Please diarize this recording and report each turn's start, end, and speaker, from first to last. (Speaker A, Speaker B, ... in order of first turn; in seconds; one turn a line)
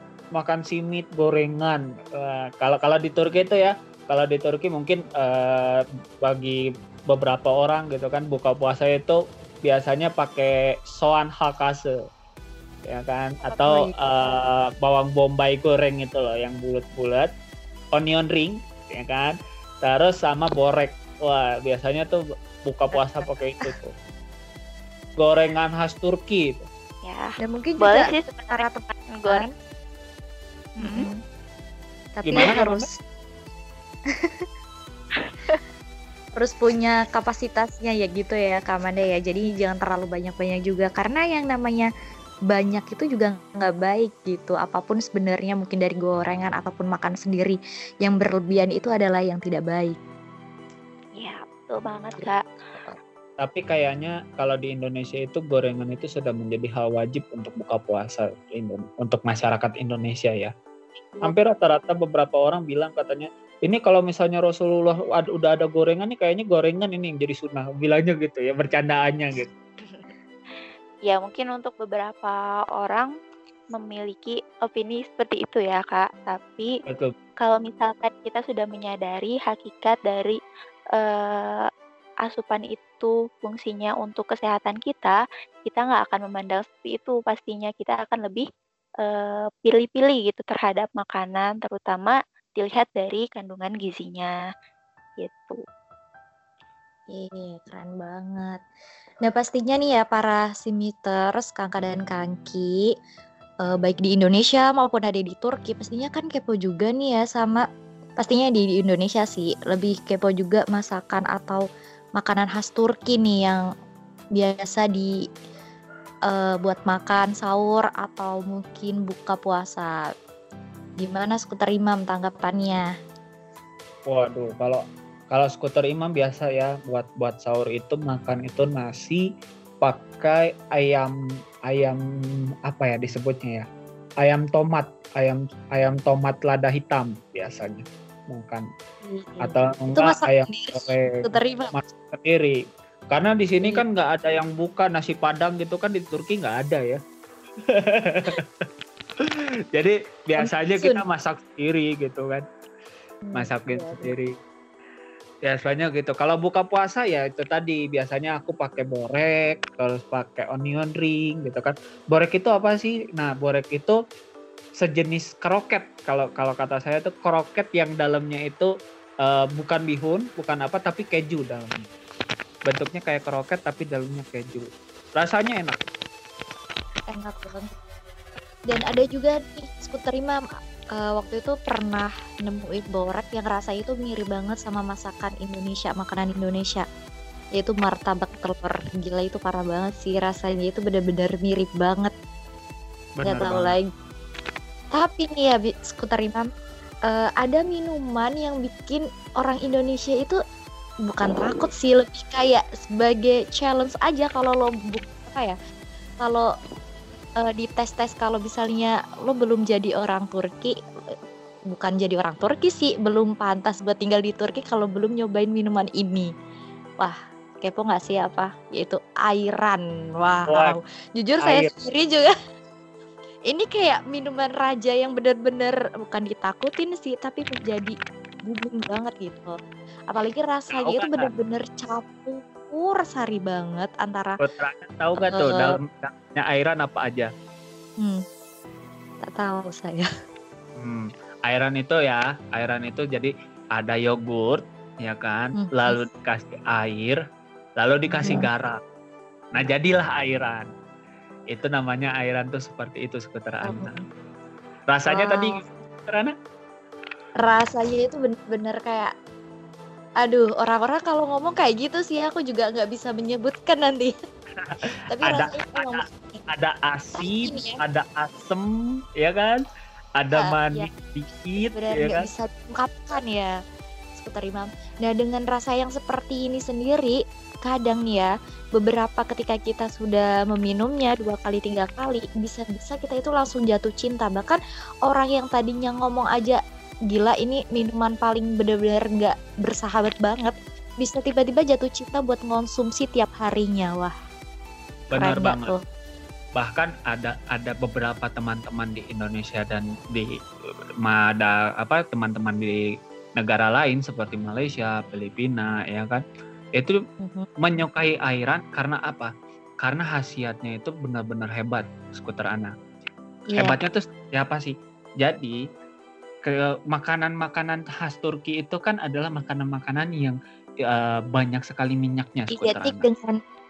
Speaker A: 0.3-11.9
Speaker A: 12.8-17.3
Speaker B: 13.5-14.4
Speaker A: 17.9-23.9
Speaker B: 22.9-23.7
Speaker A: 25.2-26.7
Speaker C: 27.0-29.5
Speaker B: 27.4-29.5
Speaker C: 30.8-31.0
Speaker B: 30.8-31.2
Speaker B: 32.2-32.9
Speaker A: 32.2-32.9
Speaker B: 34.2-34.4
Speaker C: 35.2-35.6
Speaker B: 36.3-41.9
Speaker B: 42.5-50.0
Speaker C: 51.1-52.4
Speaker A: 53.4-60.5
Speaker A: 61.2-69.5
Speaker C: 71.0-73.1
Speaker C: 73.7-76.7
Speaker A: 76.9-77.1
Speaker C: 77.4-80.4
Speaker C: 80.9-81.7
Speaker C: 82.2-88.5
Speaker C: 89.0-94.3
Speaker C: 95.2-95.6
Speaker B: 97.1-98.6
Speaker B: 99.2-102.9
Speaker B: 103.6-107.6
Speaker B: 108.2-111.7
Speaker B: 112.2-113.6
Speaker B: 114.3-115.1
Speaker B: 116.3-119.9
Speaker B: 121.0-122.8
Speaker A: 124.1-129.2
Speaker A: 129.8-131.1
Speaker A: 131.7-132.0
Speaker A: 132.7-133.7
Speaker A: 134.2-138.7
Speaker B: 139.0-141.7
Speaker A: 139.4-142.6
Speaker A: 143.1-147.0
Speaker A: 147.7-148.7
Speaker A: 149.2-152.4
Speaker B: 150.4-151.0
Speaker B: 153.2-154.1
Speaker A: 153.3-154.3
Speaker A: 155.4-164.0
Speaker A: 164.8-168.7
Speaker A: 169.2-171.9
Speaker A: 172.7-175.8
Speaker B: 177.1-177.7
Speaker B: 178.7-180.4
Speaker B: 180.9-186.8
Speaker B: 187.6-192.1
Speaker A: 193.2-193.8
Speaker B: 193.2-193.9
Speaker B: 194.9-196.5
Speaker B: 197.1-200.4
Speaker B: 201.1-205.6
Speaker B: 206.2-206.5
Speaker B: 207.4-210.7
Speaker B: 211.7-216.3
Speaker B: 217.0-222.3
Speaker A: 220.5-220.8
Speaker A: 221.4-221.7
Speaker B: 223.5-227.9
Speaker B: 228.4-229.5
Speaker B: 230.1-234.4
Speaker A: 230.7-231.3
Speaker A: 234.4-237.3
Speaker B: 235.2-235.8
Speaker B: 239.2-240.1
Speaker A: 240.8-247.2
Speaker B: 245.6-246.0
Speaker A: 247.8-248.8
Speaker B: 248.1-248.4
Speaker A: 249.5-250.7
Speaker A: 251.5-253.9
Speaker B: 253.6-254.0
Speaker A: 254.9-256.3
Speaker B: 255.1-255.6
Speaker B: 257.4-259.1
Speaker B: 260.2-264.1
Speaker A: 264.6-269.6
Speaker B: 265.1-266.4
Speaker B: 267.2-267.8
Speaker A: 270.2-272.2
Speaker B: 270.3-270.9
Speaker B: 271.7-273.5
Speaker B: 274.1-286.6
Speaker B: 287.1-294.1
Speaker A: 295.1-295.7
Speaker B: 295.1-295.8
Speaker A: 296.6-300.3
Speaker A: 301.0-302.8
Speaker A: 303.4-306.2
Speaker B: 307.2-307.5
Speaker A: 307.6-309.3
Speaker A: 309.8-312.7
Speaker B: 313.5-313.8
Speaker A: 313.5-315.6
Speaker A: 316.4-323.1
Speaker B: 322.5-323.4